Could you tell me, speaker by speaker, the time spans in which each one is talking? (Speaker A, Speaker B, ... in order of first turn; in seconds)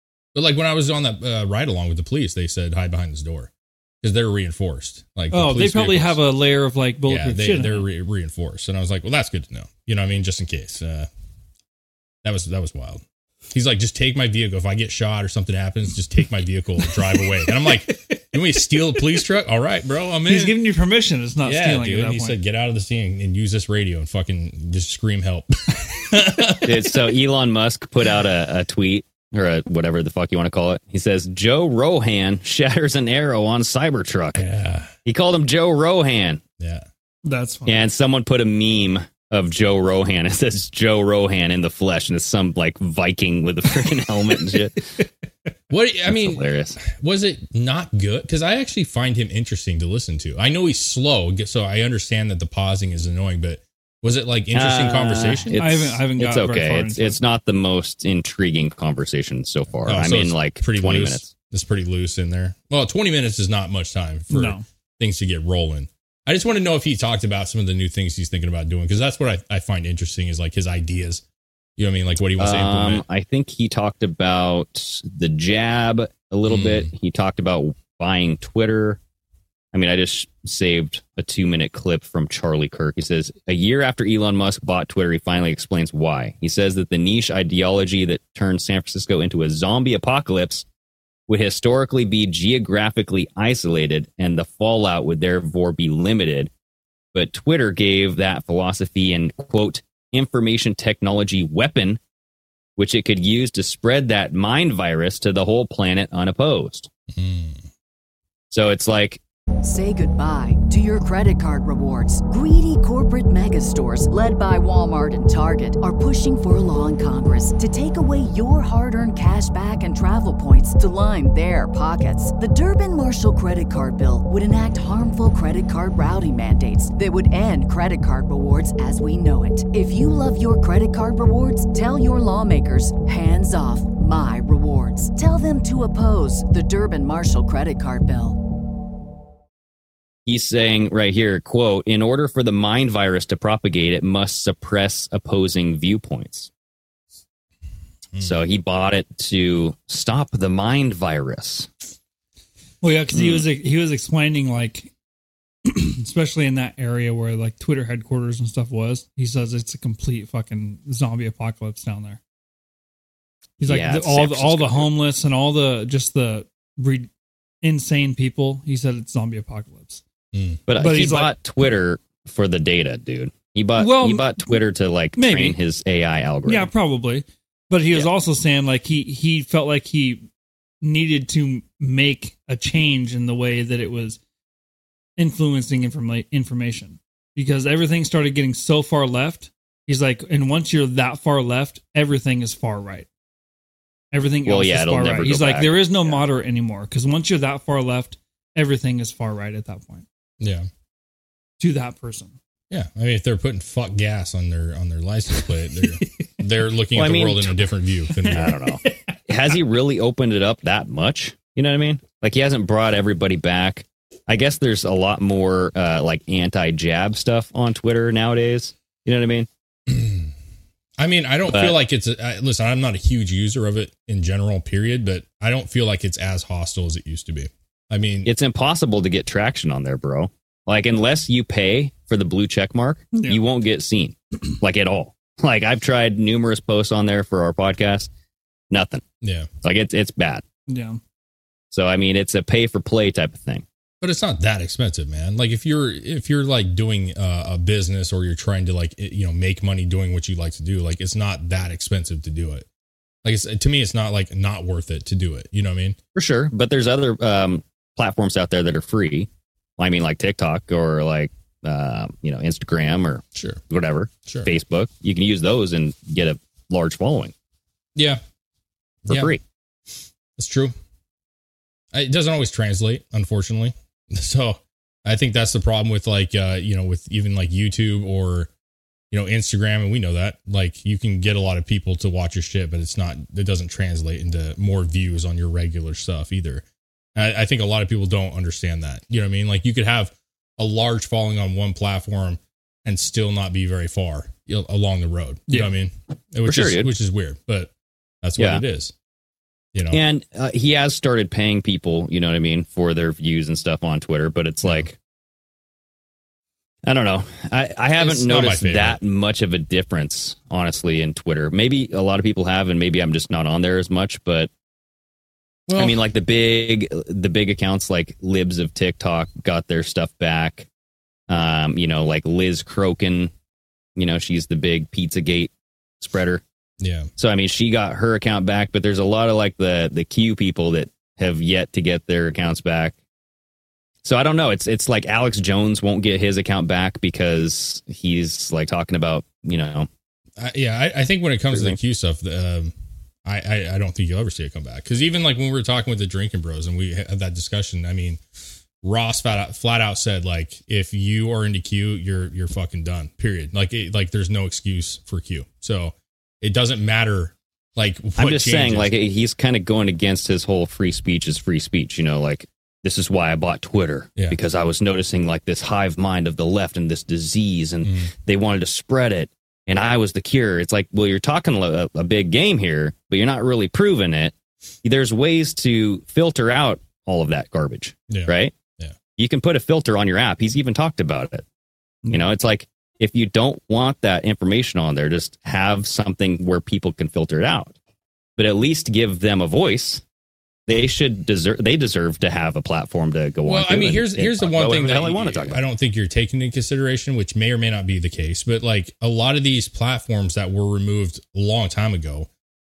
Speaker A: 0.3-3.5, 4.0-6.2, 7.1-11.1, 12.2-20.6, 21.4-27.1, 34.4-34.9, 36.6-36.9, 45.7-55.5, 59.8-71.2, 71.8-73.0, 76.5-76.9, 107.1-107.7, 148.2-148.4, 170.3-170.6, 200.4-200.7, 202.7-208.6, 219.9-220.3, 221.0-228.3, 239.2-239.5, 244.0-252.7, 253.2-256.0, 263.4-263.6, 264.3-264.5, 268.0-268.2, 269.1-269.4, 270.4-270.7, 271.9-278.5, 279.1-286.6, 287.1-297.7, 298.2-298.9, 299.7-300.0, 308.0-309.0, 315.7-316.0, 326.8-327.1, 340.4-342.7, 343.2-348.2, 348.8-358.9, 367.8-368.1, 378.1-379.0, 393.5-402.3
Speaker B: 5.3-7.9, 20.3-22.4, 37.2-37.9, 55.5-57.2, 64.3-64.6, 152.8-154.9, 155.7-162.2, 163.6-167.1, 167.6-170.0, 170.8-171.3, 173.8-174.6, 175.2-175.6, 176.4-180.3, 180.8-184.2, 185.2-193.1, 194.1-200.1, 201.6-202.4, 205.4-206.3, 208.1-209.6, 233.1-233.4, 240.7-241.0
Speaker C: 26.6-34.5, 35.0-36.4, 37.7-44.9, 46.1-46.8, 54.5-61.3, 72.4-79.0, 79.7-90.7, 91.3-96.5, 97.1-102.0, 102.8-106.9, 108.5-109.2, 140.3-146.5, 148.2-151.7, 153.1-153.4, 163.6-164.9, 170.7-176.7, 194.4-196.2, 206.9-207.6, 208.3-219.5, 221.5-221.8, 228.2-238.1, 238.7-239.0, 239.6-240.4, 241.7-243.7, 256.1-267.3, 269.1-269.4, 296.4-296.9, 298.4-298.6, 299.9-305.0, 306.8-314.5, 315.8-320.7, 321.3-323.3, 324.0-326.4, 327.2-333.0, 334.0-339.9, 341.5-341.8, 358.2-378.6, 379.2-381.4, 382.1-387.8, 388.4-390.0, 390.7-395.6
Speaker D: 109.6-138.4